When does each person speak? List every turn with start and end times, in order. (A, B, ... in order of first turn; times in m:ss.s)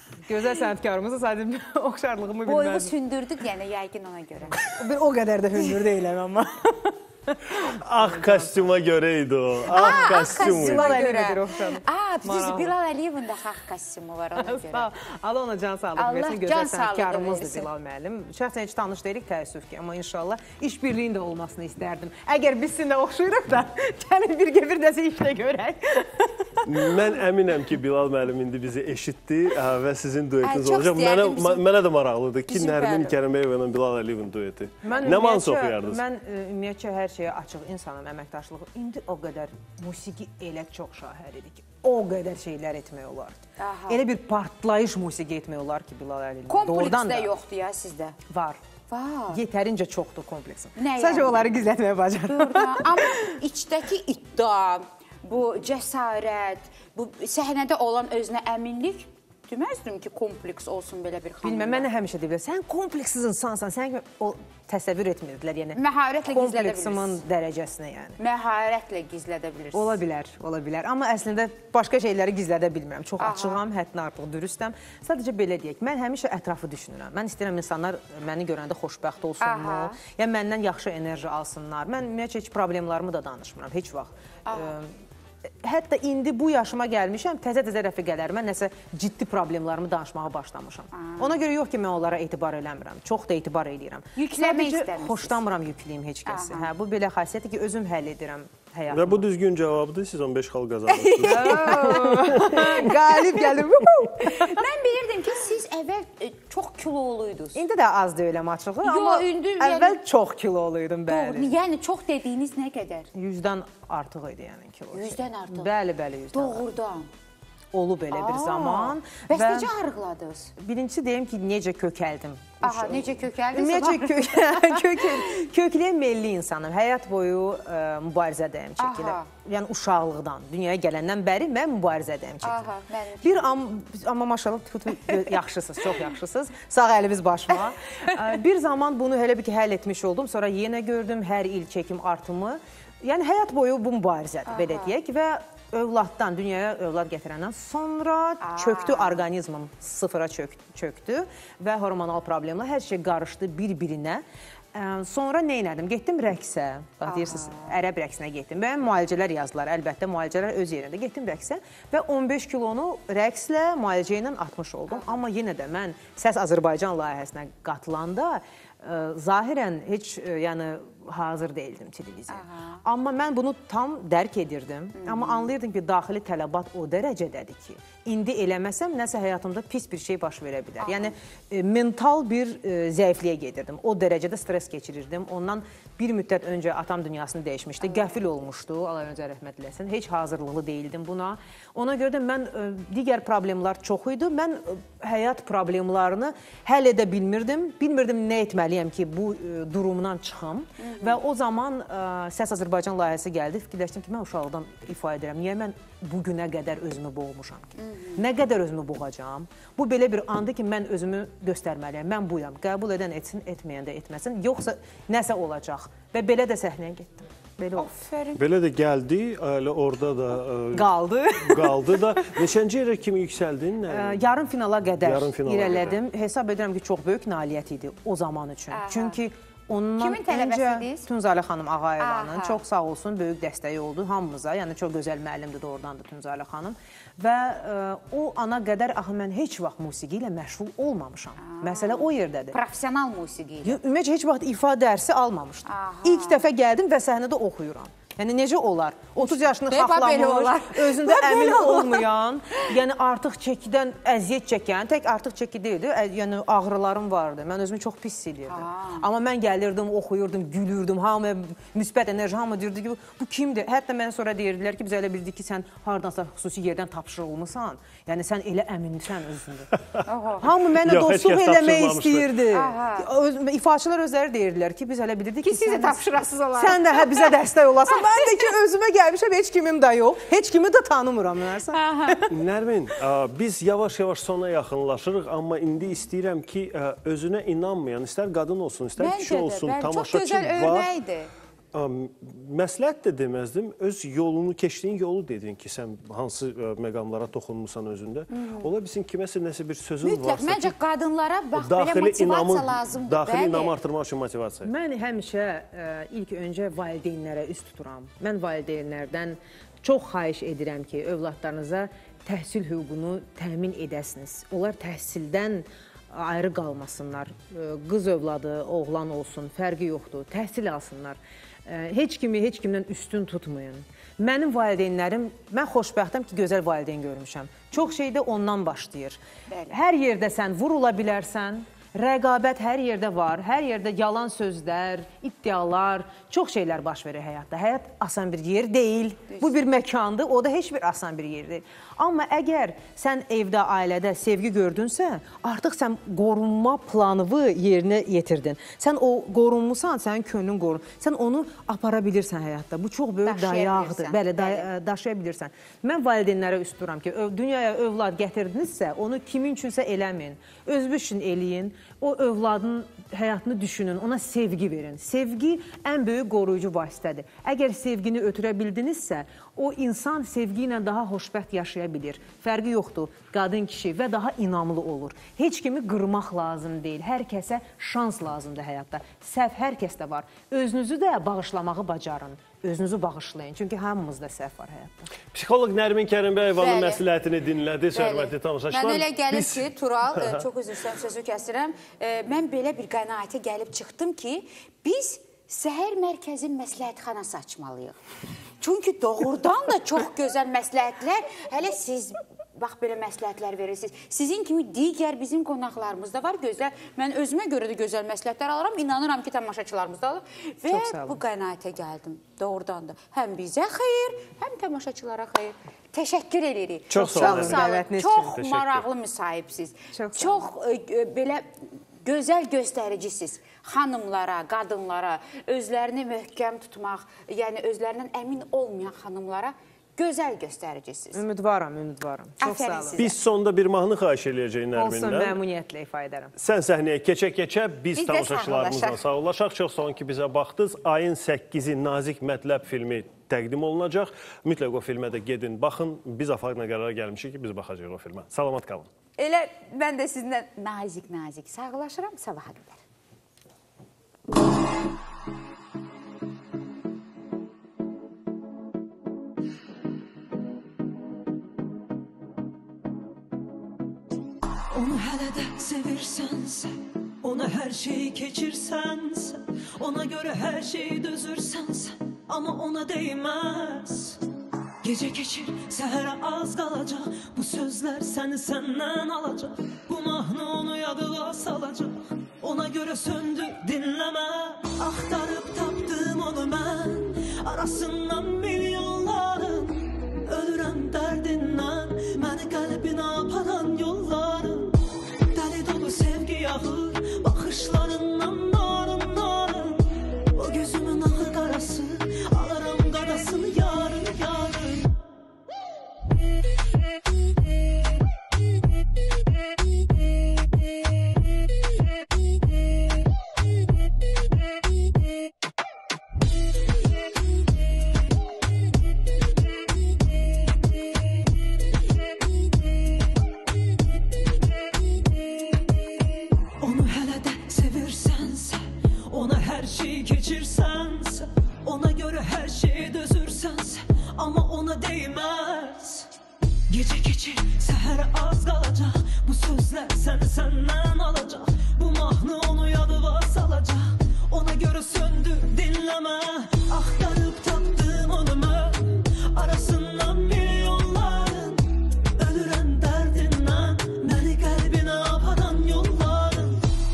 0:00.3-0:02.9 A
0:02.5-0:04.7 B
0:04.6-0:08.5 A
0:07.7-0:11.1 C
0:09.7-0:12.7 A
0:09.7-0:14.9 B
0:14.4-0:26.8 A
0:16.0-0:17.7 B
0:26.7-0:36.0 C
0:30.4-0:31.7 B
0:32.5-0:33.2 B
0:34.8-0:47.4 A
0:43.6-0:44.0 B
0:46.5-0:48.2 B
0:48.3-0:48.6 A
0:48.9-0:49.4 B
0:49.3-0:53.4 A
0:50.8-0:51.5 B
0:52.3-1:01.9 B
1:01.4-1:08.2 A
1:05.8-1:07.2 B
1:08.2-1:10.0 B
1:09.7-1:24.9 A
1:13.2-1:13.6 B
1:19.4-1:20.0 B
1:24.5-1:24.8 B
1:25.6-1:39.2 A
1:30.9-1:31.4 B
1:34.2-1:35.4 B
1:36.3-1:36.7 B
1:38.9-1:42.7 C
1:41.0-1:43.2 B
1:41.2-1:44.6 A
1:44.2-1:47.6 B
1:47.6-1:51.5 A
1:48.8-1:50.0 B
1:51.1-1:53.1 B
1:53.1-1:56.6 A
1:54.9-1:55.7 B
1:56.3-1:57.1 B
1:57.7-1:59.7 A
1:58.1-2:00.5 B
2:00.6-2:12.7 A
2:02.6-2:05.4 B
2:08.8-2:09.3 B
2:12.4-2:13.5 B
2:13.2-3:38.0 A
2:24.5-2:25.0 B
2:28.4-2:29.2 B
2:37.0-2:37.8 B
2:44.9-2:45.2 B
2:52.3-2:52.8 B
2:55.0-2:55.5 B
3:00.8-3:01.1 B
3:07.8-3:08.2 B
3:20.8-3:21.2 B
3:27.8-3:28.2 B
3:37.8-3:38.4 B
3:38.4-3:44.2 C
3:40.7-3:42.4 A
3:43.9-4:02.6 A
3:45.0-3:46.0 C
3:48.7-3:49.2 B
3:50.0-3:51.1 B
3:52.0-3:52.6 B
4:01.4-4:03.8 B
4:03.6-4:29.7 A
4:05.7-4:06.4 B
4:09.2-4:12.1 B
4:18.5-4:19.1 B
4:30.1-4:30.5 B
4:30.4-4:42.3 A
4:30.8-4:32.4 C
4:32.5-4:33.1 B
4:35.4-4:37.3 B
4:37.9-4:38.5 B
4:41.7-4:42.2 B
4:42.3-4:50.9 C
4:49.0-4:51.3 B
4:51.7-5:00.8 C
4:58.3-4:58.7 B
5:00.0-5:03.7 B
5:01.6-5:04.7 C
5:04.6-6:25.1 A
5:29.5-5:29.8 B
5:39.3-5:39.6 B
5:53.2-5:54.7 B
6:25.3-6:30.4 C
6:26.6-6:27.0 B
6:28.0-6:38.0 B
6:38.6-7:11.2 B
6:50.7-6:51.2 A
6:56.9-6:57.8 C
6:57.0-6:58.4 A
6:58.3-6:58.9 C
6:59.9-7:00.4 A
7:11.1-7:13.0 A
7:12.4-7:13.1 B
7:13.0-7:15.4 C
7:14.8-7:16.3 A
7:16.4-7:28.9 C
7:18.0-7:19.0 B
7:29.2-7:32.8 B
7:44.7-7:54.2 D
7:54.8-8:14.8 D
8:15.3-8:25.0 D
8:46.6-8:56.1 D
8:56.7-9:16.7 D